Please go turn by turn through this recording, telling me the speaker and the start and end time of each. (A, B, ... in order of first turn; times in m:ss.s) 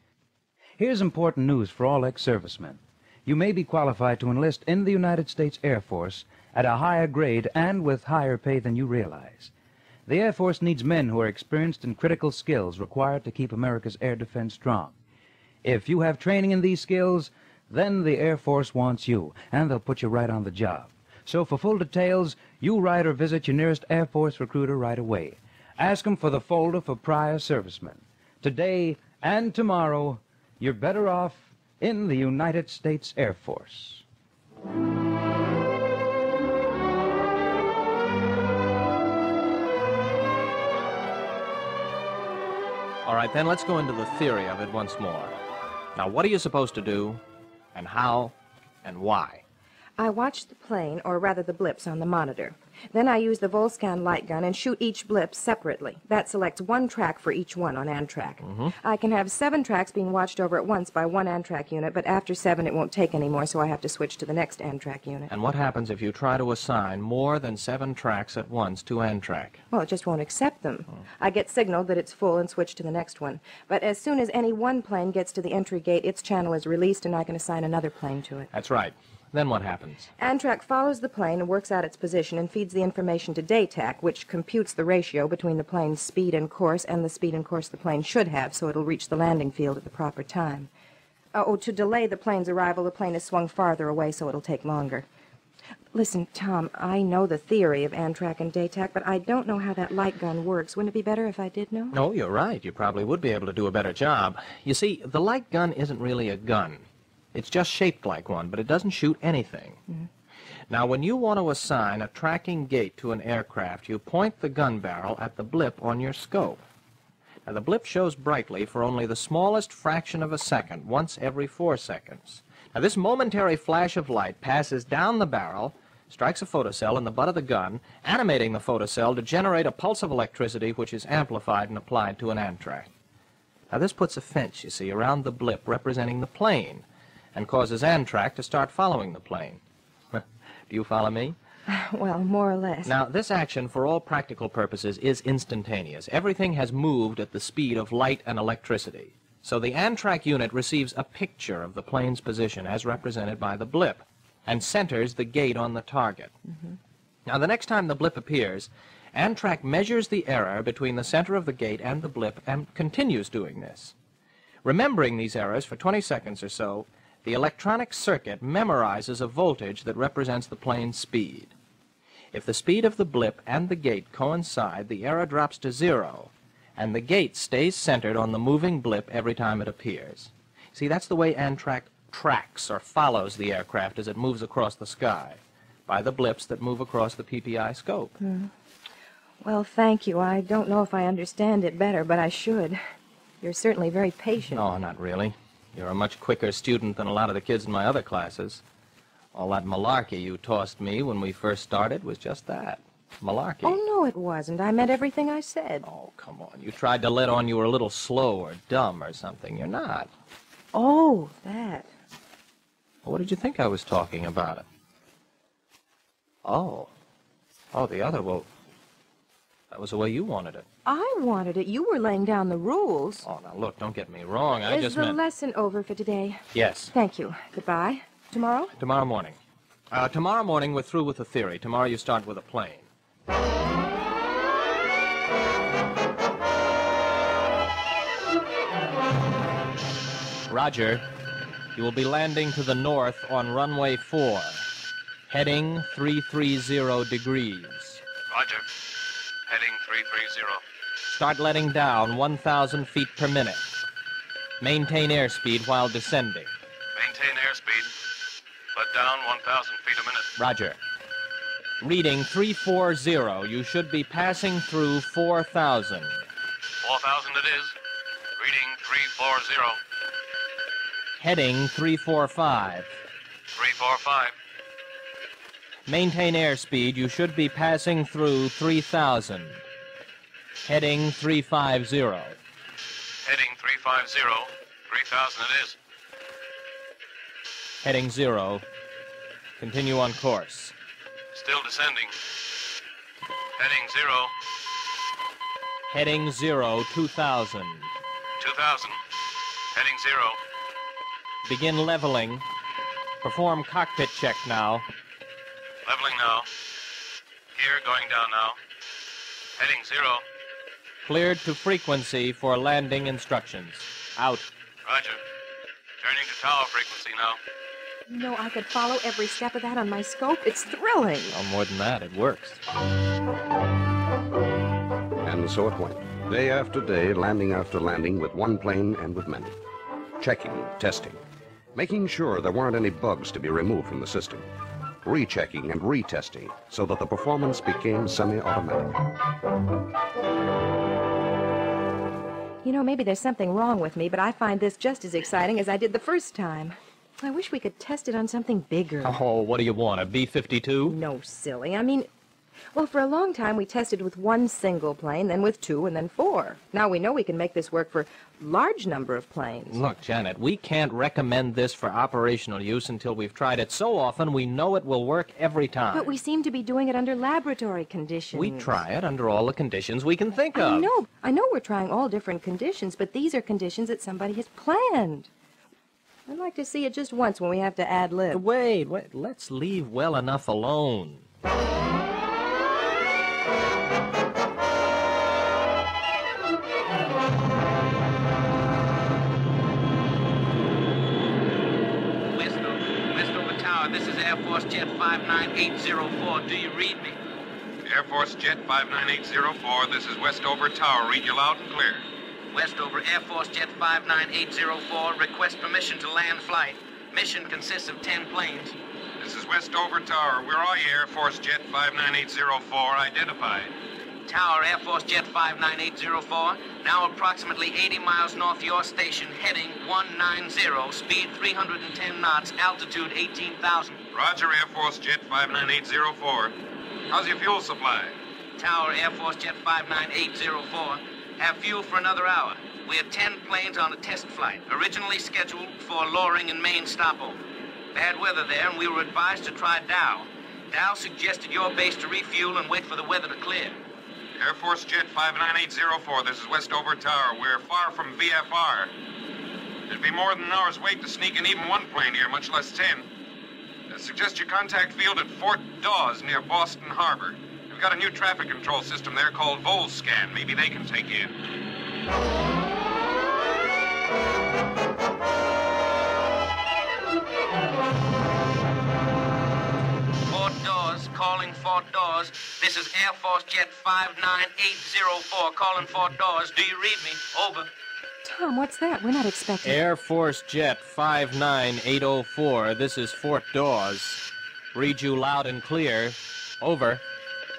0:00.8-0:09.5 A
0:10.1-0:15.0 A
0:15.6-0:34.0 A
0:43.0-0:45.4 B
0:46.0-0:47.2 B
0:47.8-0:49.4 B
0:50.0-1:05.3 C
0:58.4-0:58.7 B
1:05.3-1:09.6 B
1:09.7-1:18.5 C
1:18.5-1:20.1 B
1:20.2-1:30.7 C
1:31.3-1:35.1 C
1:35.9-1:42.0 C
1:41.9-1:49.8 B
1:50.7-1:56.6 B
1:57.4-2:12.9 B
2:13.7-2:16.8 B
2:17.4-2:19.6 B
2:20.1-2:21.4 B
2:21.7-2:22.9 C
2:22.8-2:36.3 B
2:37.2-2:43.9 B
2:44.6-2:51.5 B
2:52.3-3:08.1 B
3:08.2-3:08.5 C
3:09.4-3:12.8 C
3:13.4-3:14.6 C
3:14.5-3:18.6 B
3:19.3-3:23.8 B
3:23.6-3:25.8 C
3:25.8-3:30.1 B
3:30.7-3:31.9 C
3:33.0-3:34.6 B
3:36.4-3:36.9 B
3:37.7-3:38.5 B
3:39.7-3:40.6 B
3:40.8-3:43.2 C
3:43.2-3:45.2 B
3:44.6-3:46.4 C
3:46.5-3:46.9 B
3:46.9-3:48.7 C
3:48.8-3:49.4 B
3:49.9-3:52.9 B
4:00.5-4:01.0 B
4:01.8-4:04.6 B
4:05.3-4:08.0 B
4:08.3-4:08.7 D
4:09.5-4:10.6 D
4:11.1-4:13.6 B
4:14.6-4:16.5 B
4:17.0-4:17.9 D
4:18.8-4:20.3 D
4:20.4-4:20.8 B
4:21.8-4:26.2 B
4:26.8-4:27.7 D
4:28.4-4:29.8 D
4:31.2-4:33.0 B
4:33.5-4:34.3 D
4:35.9-4:39.6 B
4:40.6-4:42.4 B
4:43.2-4:45.8 D
4:47.8-4:48.6 B
4:49.6-4:50.7 B
4:51.3-4:52.1 D
4:53.6-4:54.3 D
4:55.9-4:57.9 B
4:58.4-4:59.0 D
4:59.7-5:00.4 D
5:01.4-5:02.4 B
5:03.2-5:04.9 B
5:05.8-5:06.5 D
5:07.5-5:08.6 D
5:09.6-5:10.2 D
5:11.0-5:14.5 B
5:14.9-5:15.2 D
5:16.0-5:17.4 D
5:18.1-5:21.3 C
5:21.3-5:22.6 B
5:25.2-5:29.5 E
5:30.2-5:31.2 E
5:31.7-5:34.5 E
5:35.0-5:39.0 E
5:42.6-5:49.2 C
5:49.0-5:51.0 B
5:50.9-5:52.1 C
5:52.7-5:59.8 C
5:59.7-6:06.2 B
6:05.9-6:08.8 C
6:08.3-6:10.9 B
6:10.5-6:15.3 C
6:16.3-6:18.4 C
6:18.3-6:21.2 B
6:32.2-6:37.2 F
6:37.8-6:42.0 G
6:42.5-6:48.8 F
6:49.2-6:53.7 G
6:54.2-7:04.0 F
7:04.1-7:06.6 G
7:07.1-7:08.2 G
7:08.6-7:17.4 F
7:17.9-7:23.8 F
7:24.4-7:28.9 G
7:29.9-7:33.1 G
7:33.9-7:41.3 G
7:50.3-7:57.7 F
7:58.2-7:59.8 C
7:59.6-8:04.2 B
8:04.7-8:07.0 B